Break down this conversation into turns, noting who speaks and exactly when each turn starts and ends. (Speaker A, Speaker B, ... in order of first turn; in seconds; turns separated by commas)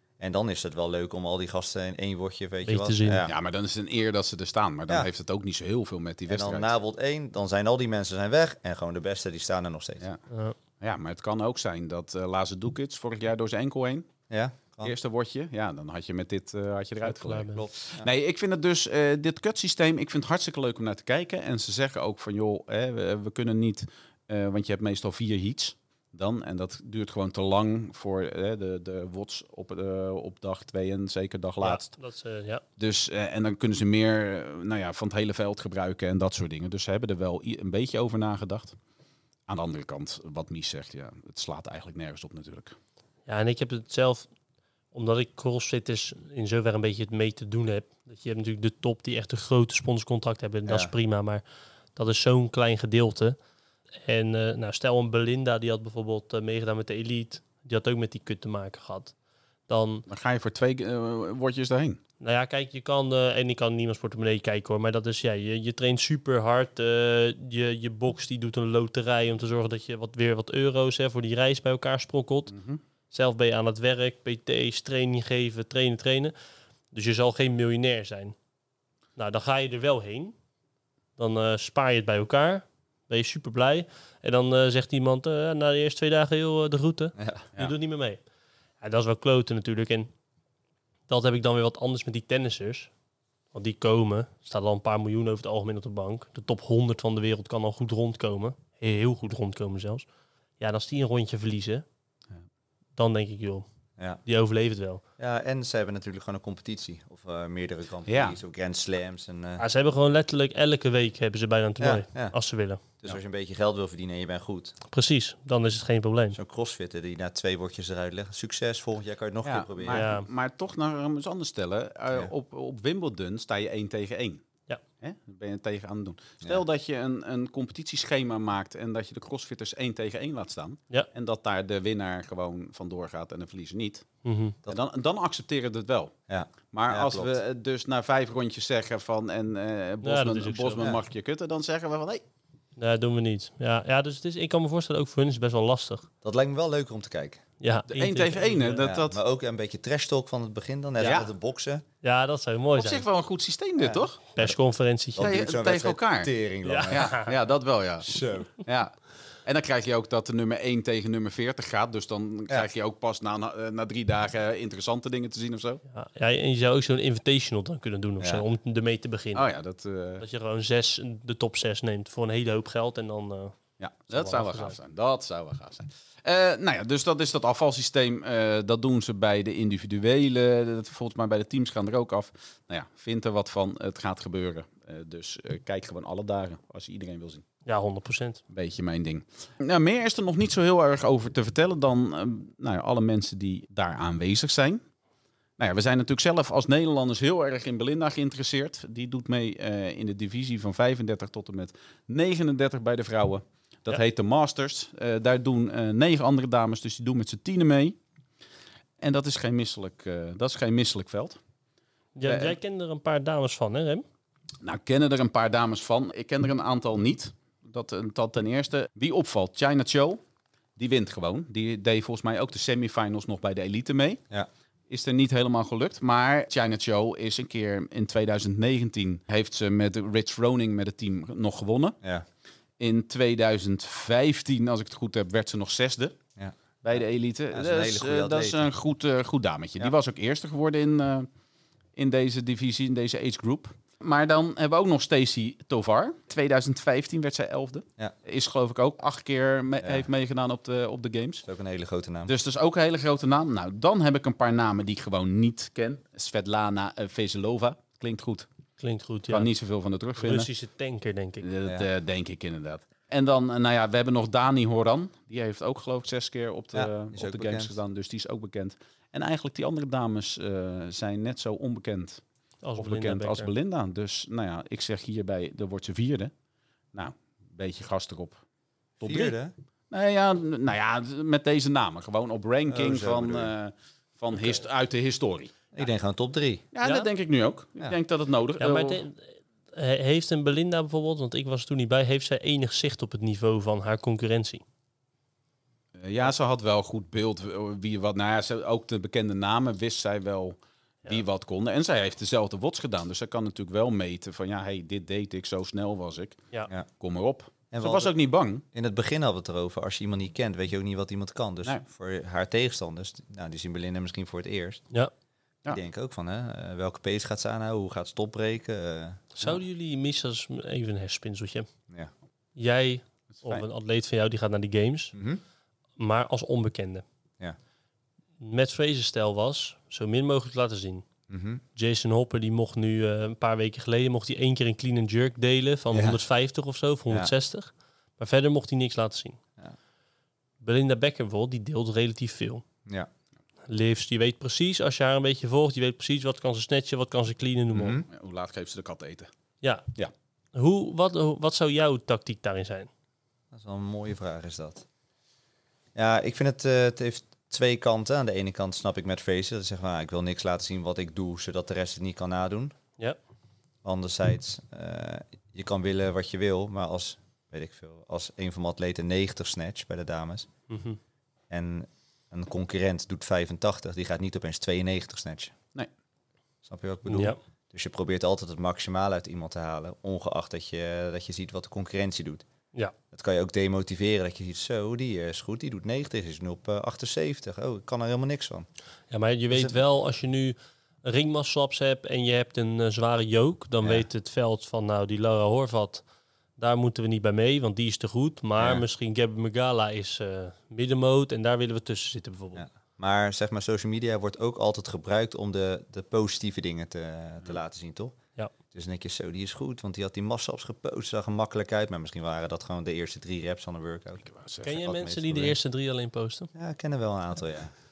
Speaker A: 0.2-3.3, Speaker B: 2.6-3.2, Speaker C: 3.2-6.7, Speaker A: 6.3-10.0, Speaker B: 10.3-10.6, Speaker C: 10.8-14.1, Speaker A: 14.3-14.9, Speaker C: 14.8-31.9, Speaker B: 17.0-17.7, Speaker B: 31.6-32.6, Speaker C: 32.8-38.8, Speaker C: 39.5-42.8, Speaker B: 43.3-44.3, Speaker B: 44.9-51.4, Speaker A: 50.7-50.9, Speaker B: 51.9-53.4, Speaker B: 54.0-59.1, Speaker B: 59.7-60.0, Speaker C: 60.1-62.0, Speaker B: 62.2-72.5, Speaker C: 72.5-72.8, Speaker B: 73.1-76.3, Speaker B: 76.9-78.3, Speaker B: 79.2-80.3, Speaker B: 81.2-88.2, Speaker A: 87.2-87.5, Speaker B: 88.8-90.1, Speaker B: 91.1-92.9, Speaker B: 93.5-100.1, Speaker B: 100.6-101.8, Speaker B: 103.0-103.7, Speaker B: 104.2-105.0, Speaker A: 105.2-109.6, Speaker C: 108.1-108.4, Speaker B: 109.6-112.8, Speaker A: 111.8-112.3, Speaker A: 113.0-114.8, Speaker B: 114.9-116.4, Speaker A: 116.3-120.1, Speaker C: 119.4-124.4, Speaker B: 119.9-120.3, Speaker C: 125.0-134.1, Speaker B: 134.2-134.6, Speaker C: 134.7-136.1, Speaker A: 136.3-137.4, Speaker C: 136.7-142.2, Speaker B: 140.0-140.9, Speaker B: 142.8-146.1, Speaker A: 146.2-147.4, Speaker B: 147.6-148.8, Speaker C: 147.9-149.2, Speaker A: 148.8-151.8, Speaker C: 151.0-151.3, Speaker B: 152.0-153.0, Speaker C: 152.8-154.2, Speaker A: 153.8-154.6, Speaker B: 154.3-155.3, Speaker A: 155.1-157.2, Speaker C: 155.2-156.3, Speaker B: 156.6-157.3, Speaker C: 156.9-165.8, Speaker A: 158.0-158.5, Speaker B: 165.9-169.5, Speaker C: 169.3-170.2, Speaker B: 170.2-173.5, Speaker C: 173.8-187.4, Speaker B: 174.1-174.8, Speaker B: 187.6-188.4, Speaker C: 188.5-194.8, Speaker C: 195.6-208.0, Speaker C: 209.0-211.4, Speaker B: 212.2-214.0, Speaker C: 212.2-212.6, Speaker C: 214.6-220.2, Speaker C: 220.8-224.2, Speaker C: 224.9-231.9, Speaker C: 232.8-236.2, Speaker C: 236.8-241.3, Speaker A: 237.5-238.7, Speaker C: 241.9-251.4, Speaker A: 249.8-250.1, Speaker A: 251.4-252.3, Speaker C: 252.3-258.5, Speaker B: 258.8-259.5, Speaker C: 259.3-260.5, Speaker B: 260.2-261.4, Speaker C: 261.4-272.2, Speaker A: 266.7-267.8, Speaker B: 272.6-273.5, Speaker C: 272.8-276.3, Speaker C: 276.9-278.4, Speaker C: 279.0-279.3, Speaker A: 279.0-279.5, Speaker C: 279.9-285.5, Speaker A: 282.7-283.5, Speaker A: 285.7-286.7, Speaker C: 286.7-289.0, Speaker B: 286.8-287.1, Speaker B: 288.6-294.6, Speaker C: 296.0-306.4, Speaker C: 307.0-308.6, Speaker A: 307.7-308.1, Speaker A: 308.7-314.8, Speaker A: 315.7-319.2, Speaker B: 319.4-321.7, Speaker B: 322.6-325.1, Speaker C: 323.3-323.6, Speaker A: 325.1-325.4, Speaker B: 326.0-327.0, Speaker B: 328.4-331.0, Speaker A: 331.3-331.6, Speaker B: 331.8-339.4, Speaker A: 335.9-336.2, Speaker B: 340.6-342.6, Speaker B: 343.7-348.0, Speaker A: 347.7-348.1, Speaker C: 348.1-349.3, Speaker B: 349.6-349.9, Speaker B: 350.5-352.9, Speaker A: 353.5-354.8, Speaker A: 355.9-362.7, Speaker A: 363.8-370.5, Speaker B: 370.7-371.0, Speaker A: 371.5-375.5, Speaker A: 376.6-382.4, Speaker B: 377.1-377.4, Speaker A: 383.1-388.7, Speaker B: 389.1-396.0, Speaker A: 389.5-389.8, Speaker B: 396.6-402.6, Speaker A: 398.6-398.8, Speaker A: 402.5-408.1, Speaker A: 408.7-415.6, Speaker C: 414.2-414.7, Speaker B: 414.6-416.5, Speaker A: 416.5-417.7